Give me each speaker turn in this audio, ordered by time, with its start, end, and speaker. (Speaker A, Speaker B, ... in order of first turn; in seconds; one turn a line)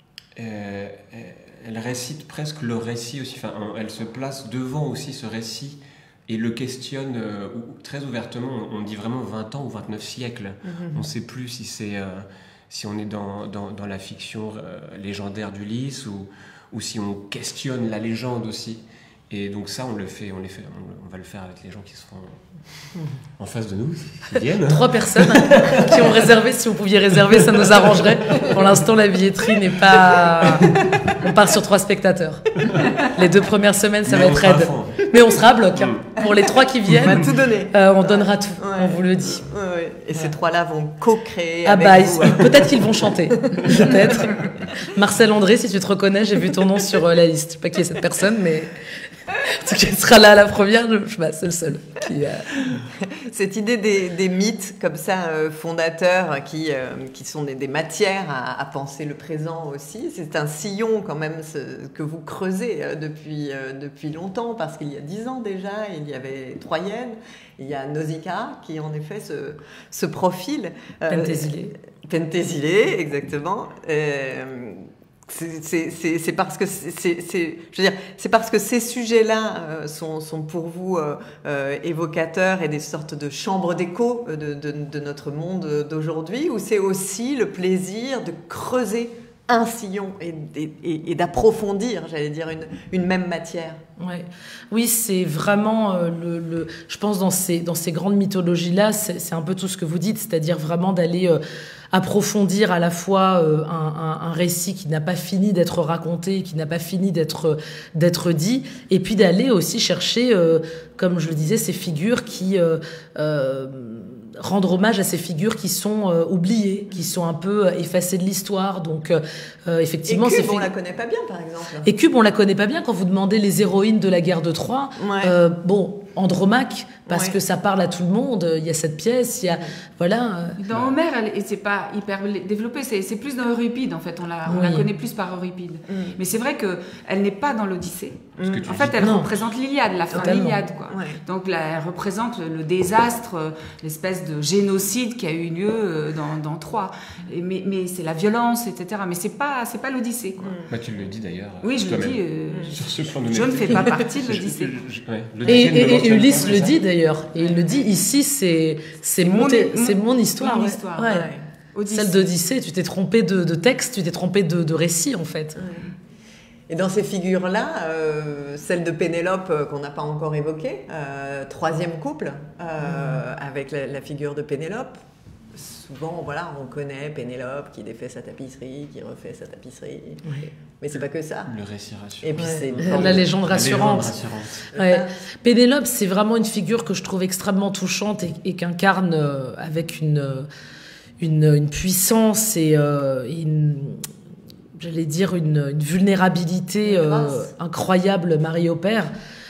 Speaker A: 0.4-22.9
Speaker B: 10.6-11.1
Speaker A: 23.4-26.3
Speaker C: 24.6-39.5
Speaker A: 27.3-28.7
Speaker A: 30.5-31.1
Speaker A: 34.1-35.1
Speaker A: 35.8-36.0
Speaker B: 36.9-42.8
Speaker C: 41.6-48.7
Speaker B: 43.4-44.1
Speaker C: 49.4-52.6
Speaker B: 52.6-93.8
Speaker C: 71.1-71.8
Speaker C: 94.0-101.4
Speaker C: 101.9-120.7
Speaker B: 120.1-121.9
Speaker C: 121.8-130.6
Speaker B: 125.0-125.3
Speaker B: 127.1-127.4
Speaker D: 130.6-150.6
Speaker C: 134.5-134.9
Speaker B: 135.9-136.2
Speaker B: 138.4-138.7
Speaker A: 138.4-139.5
Speaker C: 139.0-139.3
Speaker C: 140.1-140.6
Speaker B: 140.9-141.2
Speaker B: 150.4-150.7
Speaker A: 150.7-156.8
Speaker D: 151.6-154.8
Speaker C: 155.5-161.3
Speaker D: 157.4-157.9
Speaker D: 159.2-162.3
Speaker B: 161.0-161.4
Speaker C: 161.9-165.6
Speaker B: 165.6-165.9
Speaker B: 166.7-175.0
Speaker C: 172.8-173.2
Speaker B: 175.5-180.3
Speaker C: 180.2-180.5
Speaker B: 180.8-181.5
Speaker A: 181.5-184.7
Speaker B: 182.2-183.3
Speaker C: 182.4-190.5
Speaker B: 184.7-185.1
Speaker C: 191.2-194.1
Speaker C: 194.8-199.1
Speaker B: 196.8-197.5